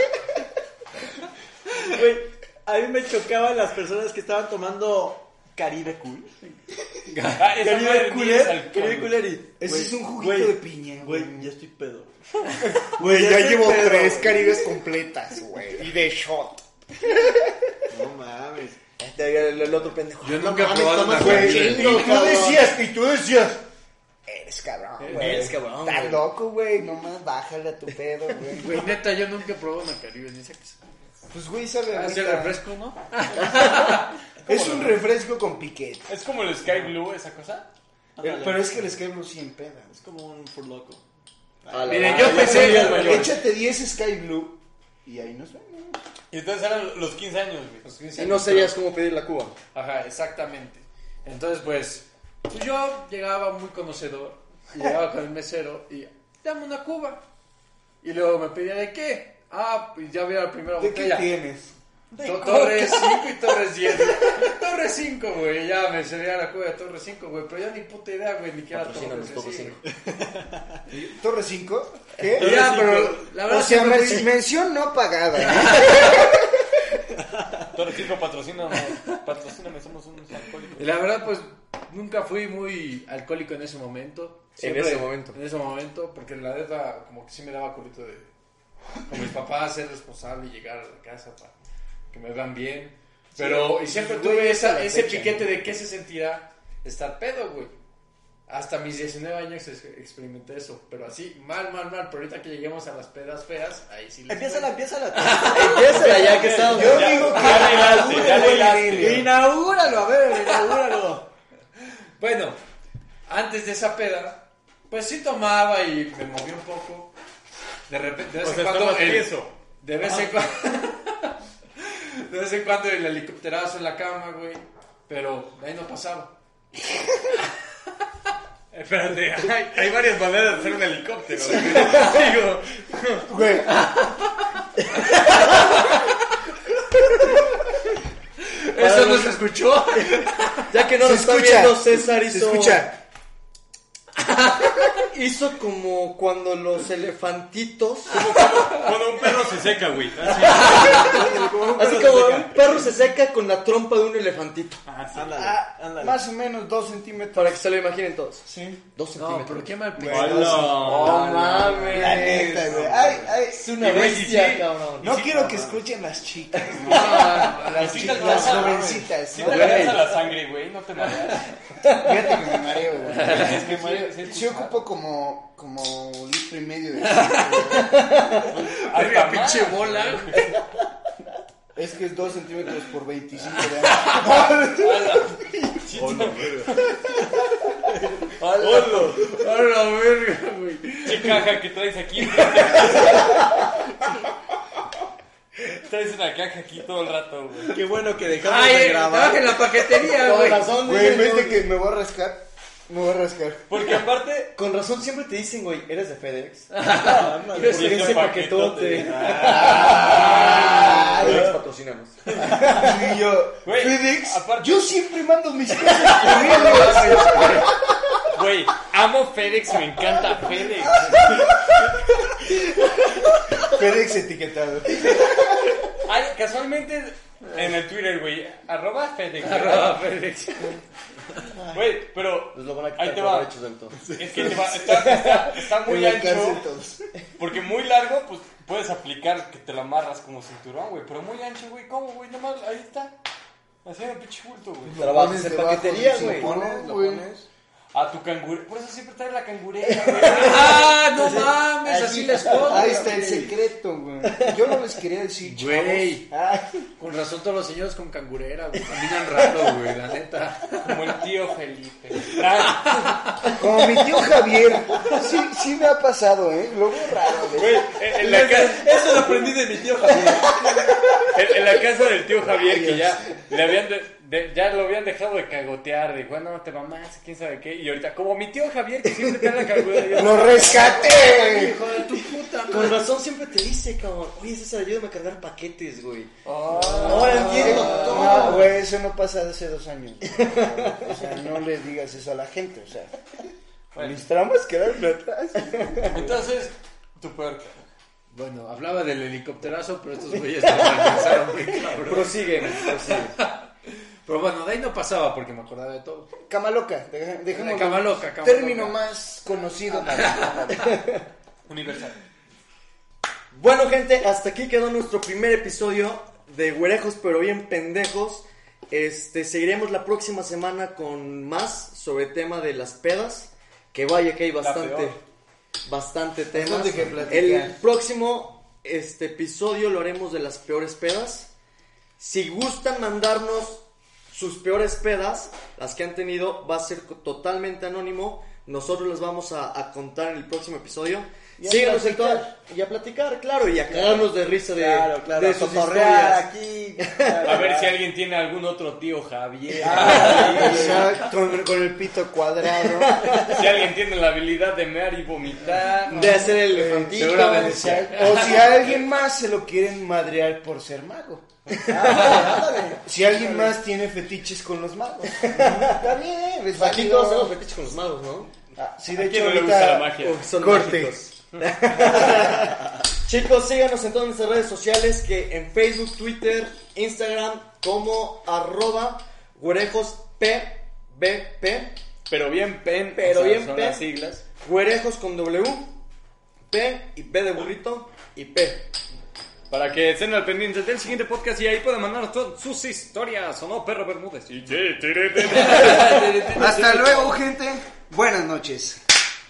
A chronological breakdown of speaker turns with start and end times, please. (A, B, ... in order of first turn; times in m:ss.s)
0:01.8-0:06.3 A
0:07.1-0:07.4 B
0:07.4-0:09.4 C
0:07.5-0:14.7 A
0:09.6-0:11.5 D
0:13.0-0:17.8 D
0:17.9-0:18.8 A
0:19.0-0:22.7 E
0:20.2-0:22.1 B
0:21.2-0:23.6 D
0:24.3-0:29.0 D
0:25.0-0:25.5 B
0:25.1-0:26.3 E
0:28.6-0:30.8 B
0:31.3-0:32.6 D
0:31.9-0:35.0 B
0:33.5-0:34.0 E
0:34.4-0:36.1 D
0:36.1-0:37.7 C
0:38.2-0:38.9 A
0:38.2-0:39.9 D
0:39.9-0:41.0 A
0:41.6-0:43.2 A
0:41.7-0:43.4 E
0:41.9-0:43.2 B
0:41.9-0:43.1 C
0:42.2-0:46.0 D
0:46.3-0:47.8 C
0:47.8-0:48.8 B
0:48.2-0:49.6 E
0:49.7-0:57.2 B
0:58.0-1:01.3 B
1:00.8-1:01.7 D
1:02.1-1:03.0 E
1:02.2-1:09.8 B
1:08.7-1:09.8 E
1:10.0-1:10.8 A
1:10.9-1:16.6 D
1:12.3-1:14.3 B
1:12.4-1:13.0 A
1:15.4-1:16.3 B
1:17.7-1:20.9 C
1:20.8-1:28.3 B
1:24.6-1:25.4 E
1:29.1-1:31.5 B
1:32.1-1:37.7 B
1:33.4-1:35.5 D
1:38.5-1:46.6 B
1:44.3-1:51.3 A
1:45.3-1:47.4 E
1:46.0-1:49.3 C
1:46.7-1:49.3 D
1:47.1-1:48.0 B
1:52.2-1:52.6 B
1:53.2-1:57.1 B
1:57.9-2:06.3 B
1:58.4-1:59.5 C
2:08.7-2:12.6 C
2:08.8-2:09.9 B
2:11.4-2:16.1 B
2:13.3-2:13.8 D
2:18.4-2:20.7 B
2:18.8-2:19.4 E
2:20.7-2:22.9 E
2:21.0-2:23.0 D
2:24.2-2:24.7 B
2:25.1-2:28.2 E
2:28.1-2:31.2 C
2:30.2-2:32.9 A
2:30.4-2:34.8 E
2:30.6-2:31.2 B
2:34.9-2:35.4 C
2:35.0-2:35.3 B
2:35.1-2:36.2 A
2:35.4-2:37.6 D
2:37.3-2:45.2 E
2:38.4-2:38.8 D
2:39.1-2:41.3 B
2:39.9-2:40.9 D
2:40.0-2:43.1 C
2:41.9-2:43.8 D
2:42.6-2:43.2 A
2:43.8-2:45.5 C
2:45.0-2:50.0 D
2:46.7-2:48.8 B
2:46.9-2:47.4 E
2:47.7-2:51.5 C
2:49.4-2:49.9 E
2:49.5-2:50.0 B
2:51.0-2:51.4 B
2:51.9-2:58.5 D
2:53.1-2:54.8 C
2:53.2-2:53.7 B
2:57.0-3:00.6 B
2:58.5-3:00.5 C
3:01.7-3:05.2 D
3:03.8-3:05.4 B
3:04.8-3:06.8 C
3:05.9-3:09.1 A
3:08.4-3:09.4 C
3:08.7-3:11.5 B
3:11.0-3:13.4 C
3:12.3-3:13.6 B
3:15.6-3:17.8 C
3:17.7-3:19.8 A
3:18.4-3:20.8 B
3:20.0-3:21.6 E
3:20.8-3:23.8 D
3:23.7-3:24.5 C
3:24.5-3:26.7 E
3:26.7-3:28.3 B
3:26.9-3:28.3 A
3:27.5-3:30.3 C
3:27.6-3:32.6 E
3:29.0-3:31.5 A
3:29.4-3:31.4 D
3:29.5-3:31.0 B
3:32.5-3:32.7 C
3:32.6-3:37.8 D
3:33.6-3:35.0 C
3:35.9-3:37.0 C
3:36.1-3:37.8 B
3:38.3-3:41.5 C
3:40.9-3:41.4 A
3:40.9-3:41.6 D
3:43.6-3:45.7 D
3:46.0-3:50.1 C
3:49.4-3:50.8 B
3:51.7-3:53.5 C
3:52.5-3:54.0 E
3:54.0-3:54.7 A
3:54.1-3:56.6 C
3:54.3-3:57.1 D
3:57.4-4:03.1 C
4:03.8-4:05.1 C
4:04.9-4:07.3 D
4:05.0-4:06.6 E
4:06.0-4:07.4 A
4:07.9-4:10.9 C
4:10.0-4:10.6 D
4:10.1-4:11.5 E
4:10.2-4:13.1 B
4:12.2-4:13.5 E
4:12.3-4:16.8 D
4:13.1-4:13.5 A
4:14.2-4:14.7 E
4:15.4-4:16.2 B
4:17.0-4:21.2 B
4:20.8-4:23.4 C
4:22.7-4:23.3 B
4:23.5-4:27.8 D
4:27.5-4:29.4 C
4:28.2-4:30.7 A
4:31.2-4:41.1 C
4:32.4-4:33.3 D
4:40.1-4:41.8 D
4:40.4-4:43.1 B
4:42.6-4:46.3 E
4:46.4-4:48.6 B
4:46.8-4:48.4 C
4:47.0-4:48.7 E
4:47.6-4:53.2 D
4:50.3-4:51.2 E
4:53.9-4:54.2 C
4:54.0-4:56.3 D
4:56.1-4:56.7 B
4:56.1-4:57.8 C
4:58.3-5:03.7 B
5:00.6-5:03.4 E
5:04.2-5:06.3 B
5:06.5-5:11.0 D
5:07.5-5:09.0 B
5:10.1-5:10.9 B
5:10.7-5:11.2 E
5:11.7-5:12.2 C
5:13.5-5:25.2 E
5:24.6-5:25.2 C
5:25.8-5:31.5 E
5:26.5-5:27.8 D
5:32.2-5:46.5 E
5:41.6-5:42.5 D
5:43.9-5:48.0 A
5:47.0-5:47.6 E
5:47.4-5:51.2 C
5:49.8-5:51.1 A
5:49.8-5:50.7 B
5:49.9-5:50.8 E
5:50.1-5:53.2 D
5:52.9-5:53.8 E
5:53.3-5:56.6 C
5:56.0-5:56.4 B
5:56.1-5:58.2 E
5:56.1-6:02.4 D
5:57.1-5:59.0 C
5:57.2-5:58.6 B
6:01.9-6:03.8 A
6:03.0-6:07.6 D
6:05.6-6:05.9 E
6:06.7-6:08.5 E
6:08.7-6:12.8 D
6:09.1-6:10.4 C
6:10.2-6:22.0 E
6:22.3-6:24.4 C
6:23.1-6:25.9 E
6:26.7-6:28.9 E
6:29.7-6:37.4 C
6:35.5-6:36.5 B
6:36.6-6:39.0 D